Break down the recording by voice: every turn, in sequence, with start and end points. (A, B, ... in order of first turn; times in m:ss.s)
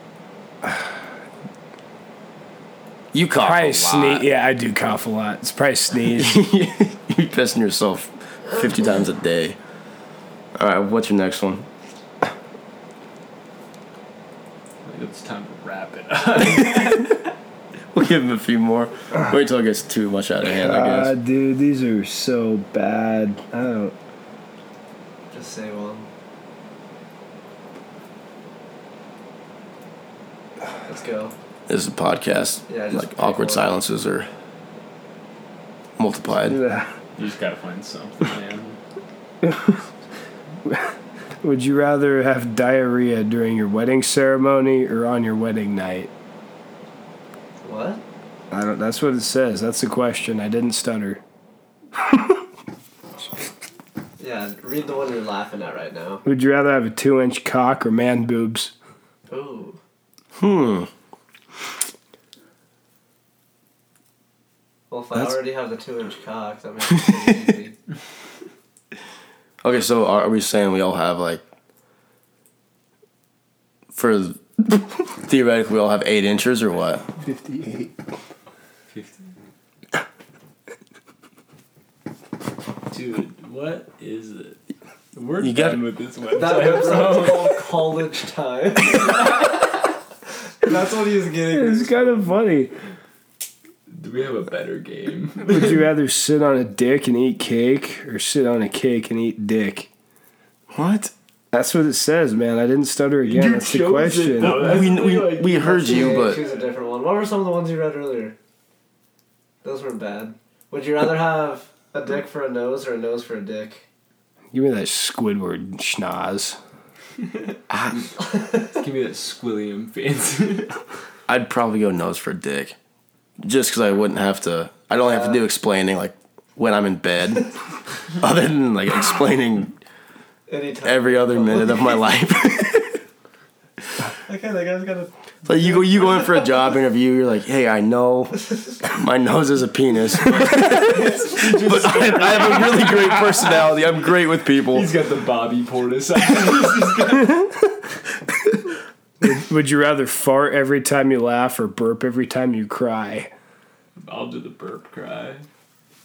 0:03.1-0:04.3 A
0:03.4-0:06.4 B
0:06.2-0:09.6 A
0:10.6-0:11.7 A
0:14.8-0:17.3 C
0:17.9-0:21.1 A
0:20.5-0:23.9 B
0:25.3-0:26.1 D
0:30.9-0:31.3 D
0:31.7-0:34.3 A
0:32.7-0:33.8 D
0:36.0-0:36.6 A
0:36.4-0:36.9 B
0:37.2-0:38.8 C
0:39.4-0:39.8 B
0:40.6-0:46.1 B
0:47.6-0:48.0 D
0:48.5-0:51.2 B
0:54.2-0:56.2 D
0:56.2-0:58.7 B
0:59.3-0:59.8 D
1:00.4-1:00.9 A
1:04.9-1:07.8 D
1:09.6-1:11.4 A
1:13.9-1:17.1 A
1:17.2-1:17.9 B
1:18.9-1:19.2 C
1:22.9-1:24.6 C
1:25.1-1:27.7 C
1:25.4-1:25.8 A
1:26.3-1:29.5 D
1:30.6-1:32.4 D
1:31.5-1:32.7 B
1:33.9-1:35.9 C
1:35.5-1:39.9 B
1:40.7-1:41.1 A
1:41.5-1:44.8 B
1:43.2-1:46.5 C
1:44.4-1:46.4 A
1:45.6-1:48.4 D
1:49.6-1:53.8 D
1:54.5-1:56.6 B
1:57.7-1:58.0 A
1:58.4-1:58.8 D
1:58.7-2:00.8 C
2:01.3-2:02.8 A
2:03.4-2:07.5 A
2:05.0-2:05.4 D
2:08.2-2:09.8 A
2:10.5-2:12.1 D
2:10.8-2:13.0 A
2:14.3-2:16.4 D
2:15.5-2:24.9 A
2:20.4-2:23.7 C
2:24.7-2:27.6 C
2:29.2-2:33.3 B
2:34.0-2:35.4 C